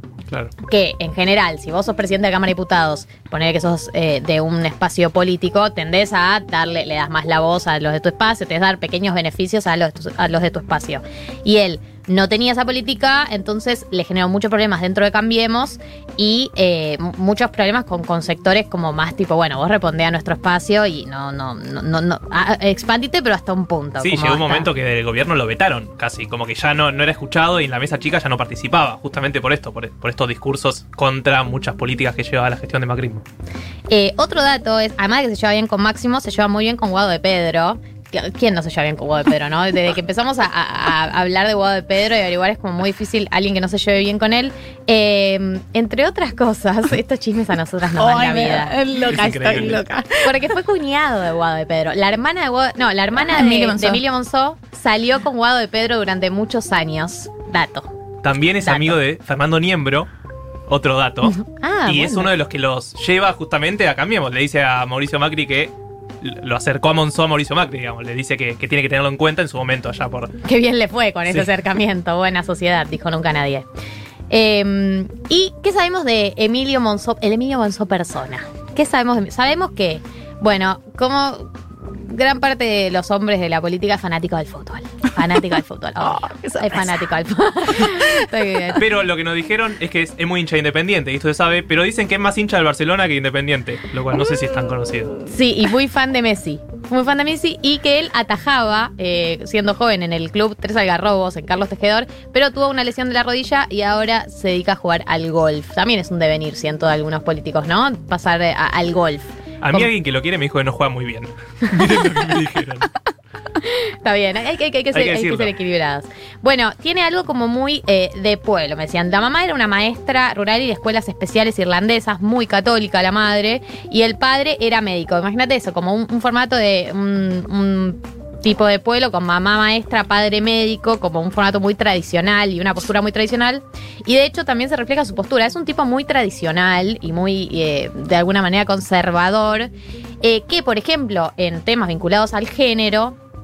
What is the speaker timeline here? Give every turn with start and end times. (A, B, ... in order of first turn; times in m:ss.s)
0:00.7-0:24.7 A
0:24.0-0:33.2 B
0:33.9-0:48.7 A
0:48.0-0:50.4 C
0:49.1-0:49.8 B
0:50.2-0:57.9 A
0:53.2-0:54.0 C
0:58.2-1:00.1 B
0:58.6-0:59.0 A
1:00.7-1:10.3 B
1:01.3-1:02.3 A
1:10.4-1:13.7 A
1:14.3-1:28.8 A
1:26.0-1:26.9 C
1:27.8-1:28.2 C
1:28.8-1:35.2 B
1:35.3-1:49.9 A
1:49.6-1:52.9 B
1:53.6-2:19.7 A
1:54.9-1:55.5 B
2:20.2-2:23.2 A